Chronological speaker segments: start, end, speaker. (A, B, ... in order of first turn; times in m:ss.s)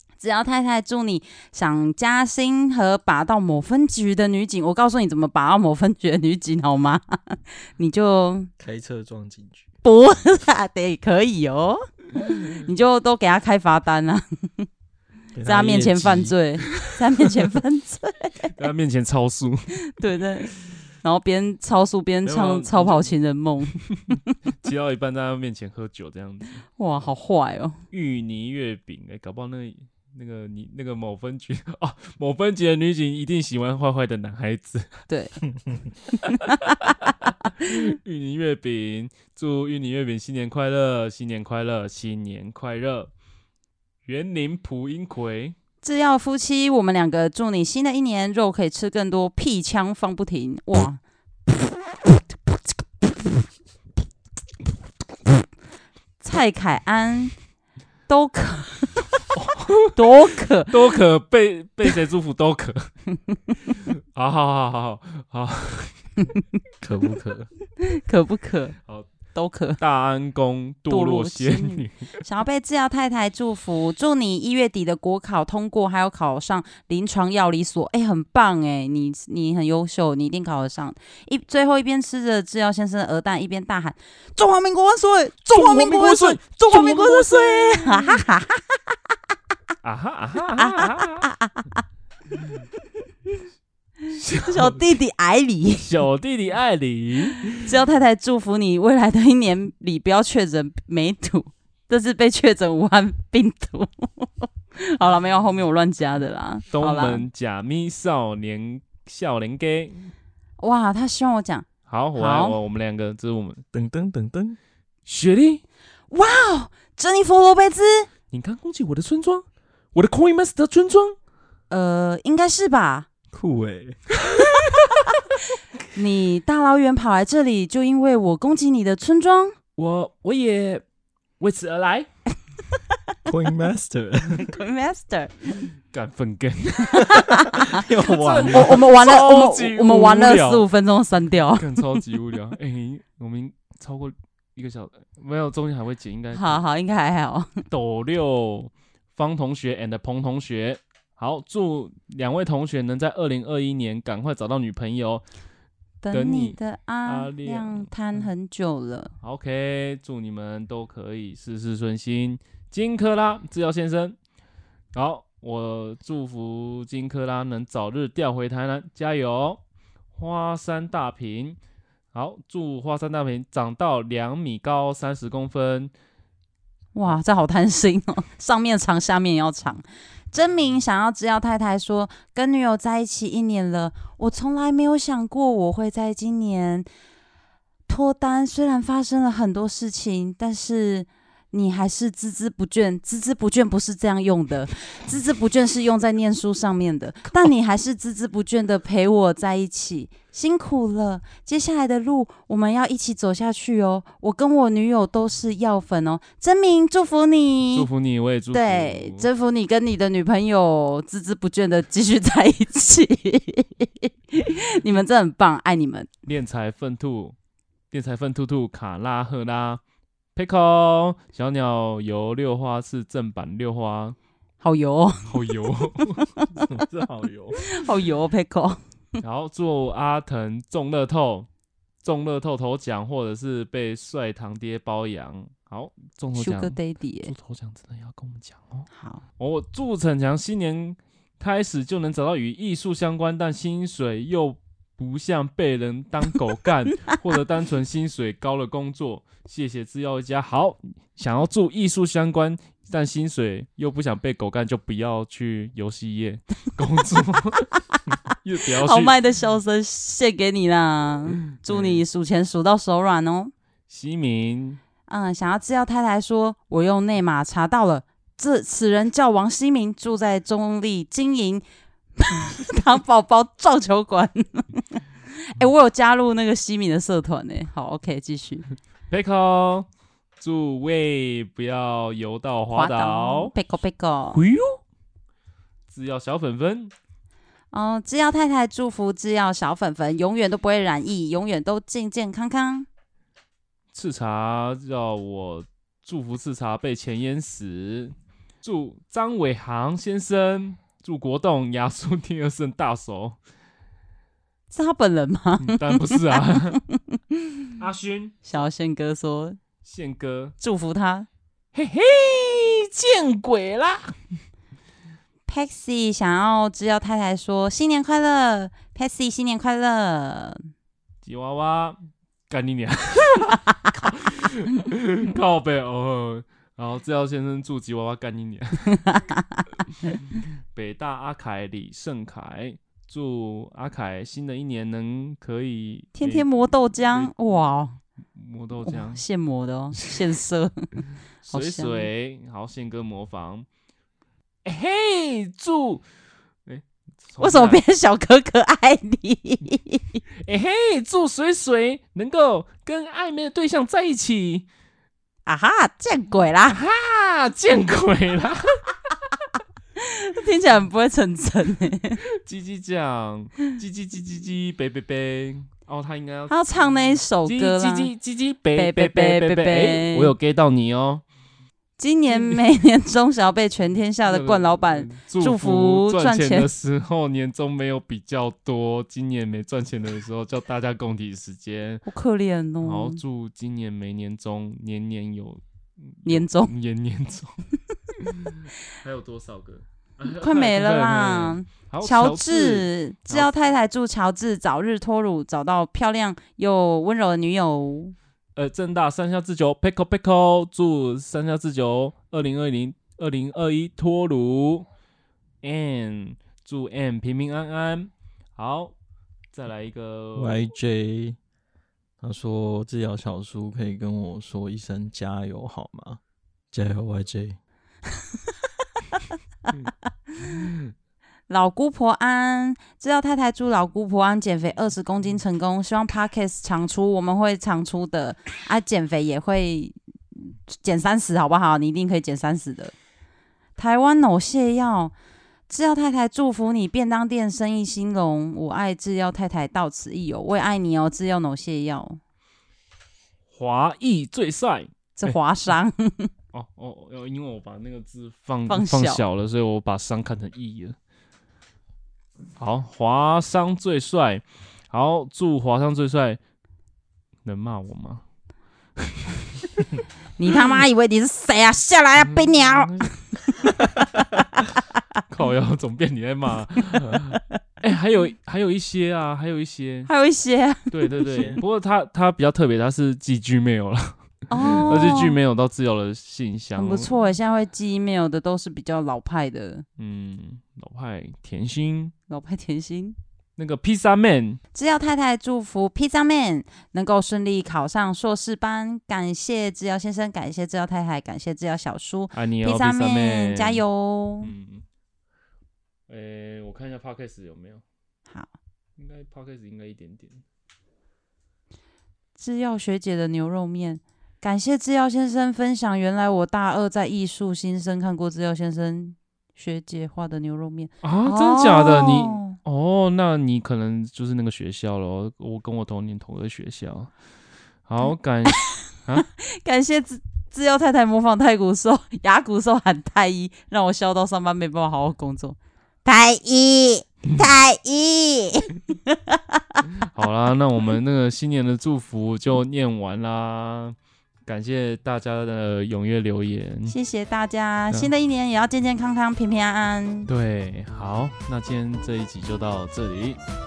0:00.2-0:08.5 A
0:08.6-0:09.7 B
0:09.8-0:14.7 A
0:15.3-0:16.3 B
0:15.4-0:18.5 A
0:18.5-0:19.7 C
0:19.7-0:24.4 A
0:22.2-0:23.1 C
0:23.7-0:26.6 C
0:26.8-0:27.8 A
0:27.9-0:35.0 C
0:35.1-0:35.4 A
0:36.2-0:37.1 A
0:36.2-0:43.1 C
0:44.0-0:45.5 C
0:45.8-0:51.0 A
0:56.2-0:57.3 A
0:58.1-0:59.0 A
0:59.3-1:00.0 C
0:59.9-1:00.7 A
1:00.7-1:02.9 C
1:03.8-1:06.0 C
1:06.8-1:07.5 B
1:07.8-1:08.8 A
1:09.3-1:09.8 A
1:09.8-1:12.1 C
1:10.9-1:28.6 A
1:25.5-1:28.2 C
1:29.8-1:31.3 C
1:30.5-1:31.8 A
1:34.1-1:34.8 C
1:34.4-1:35.8 A
1:35.8-1:37.7 C
1:37.5-1:47.2 A
1:46.7-1:50.1 C
1:50.6-1:52.6 A
1:51.9-1:53.6 C
1:53.7-1:54.6 B
1:55.1-1:55.6 C
1:56.1-1:58.1 A
1:58.3-2:01.2 C
2:01.7-2:03.1 A
2:03.3-2:04.0 B
2:04.3-2:04.9 C
2:05.9-2:09.6 A
2:09.8-2:10.8 C
2:11.4-2:12.1 C
2:13.2-2:14.6 B
2:14.3-2:15.5 A
2:15.9-2:20.6 C
2:16.8-2:17.8 A
2:17.6-2:18.8 B
2:18.4-2:22.0 A
2:21.6-2:26.6 C
2:26.3-2:27.6 A
2:27.7-2:35.2 C
2:36.0-2:39.1 A
2:36.1-2:38.3 C
2:39.2-2:44.2 C
2:44.9-2:49.6 C
2:50.2-2:51.6 C
2:52.1-2:55.9 C
2:56.9-3:06.9 A
3:07.9-3:27.9 A
3:27.7-3:29.3 C
3:28.5-3:36.1 A
3:36.2-3:37.3 C
3:37.9-3:39.8 C
3:40.3-3:44.2 C
3:44.6-3:45.3 A
3:45.3-3:46.3 C
3:46.4-3:46.6 A
3:46.6-3:47.6 B
3:47.6-3:48.8 A
3:49.2-3:51.5 C
3:52.0-3:58.9 C
3:56.3-3:57.3 A
3:58.9-3:59.2 A
3:59.4-4:17.8 C
4:17.9-4:23.5 A
4:18.3-4:19.1 C
4:21.7-4:22.0 C
4:23.9-4:24.8 C
4:25.1-4:31.6 A
4:32.2-4:38.7 A
4:39.1-4:39.9 C
4:40.4-4:43.5 C
4:42.7-4:44.4 A
4:44.3-4:44.8 C
4:45.9-4:46.9 C
4:47.7-4:52.9 A
4:53.9-5:03.4 C
5:04.7-5:07.7 A
5:05.6-5:06.8 C
5:07.8-5:08.6 C
5:08.4-5:09.6 A
5:09.8-5:10.6 C
5:10.6-5:11.3 A
5:11.7-5:14.2 C
5:15.5-5:20.6 A
5:21.2-5:29.0 C
5:28.9-5:30.1 A
5:30.7-5:36.5 C
5:36.2-5:38.0 A
5:38.3-5:39.2 C
5:38.8-5:42.1 A
5:41.4-5:43.7 C
5:44.6-5:46.0 C
5:46.7-5:47.8 C
5:47.4-5:50.2 A
5:50.4-5:54.7 C
5:55.4-5:56.8 A
5:56.7-5:58.8 C
6:00.0-6:02.2 A
6:02.3-6:06.5 C
6:06.5-6:08.1 A
6:07.4-6:11.2 C
6:08.7-6:10.3 A
6:12.0-6:16.7 A
6:12.3-6:12.6 C
6:14.2-6:22.0 C
6:22.0-6:23.2 A
6:22.8-6:25.6 C
6:26.1-6:27.6 C
6:26.2-6:26.7 A
6:28.2-6:33.5 C
6:30.3-6:38.1 A
6:38.6-6:44.9 C
6:45.6-6:48.9 C
6:49.5-6:50.6 C
6:50.4-6:51.4 B
6:52.2-6:56.2 B
6:56.7-6:57.6 B
7:00.4-7:00.9 C
7:01.5-7:12.9 A
7:13.8-7:15.1 A
7:15.7-7:22.2 A
7:23.5-7:25.4 C
7:25.2-7:26.3 A
7:26.5-7:31.0 C
7:28.7-7:29.2 A
7:32.6-7:36.4 C
7:37.4-7:38.2 C
7:39.0-7:39.6 C
7:40.4-7:44.8 A
7:42.2-7:43.1 C
7:45.3-7:50.1 C
7:50.1-7:51.5 A
7:50.9-7:54.2 C
7:54.5-7:55.4 A
7:54.7-7:57.1 C
7:56.7-7:59.8 A
8:00.0-8:02.1 C
8:02.3-8:03.2 A
8:03.6-8:04.6 C
8:04.7-8:14.5 A
8:12.3-8:13.8 C
8:14.4-8:14.8 C
8:16.1-8:17.8 C
8:19.0-8:20.4 C
8:22.4-8:32.6 A
8:31.0-8:37.1 C
8:37.9-8:39.3 C
8:38.5-8:49.8 A
8:50.0-8:56.9 C
8:56.9-9:00.3 A
9:00.3-9:03.4 C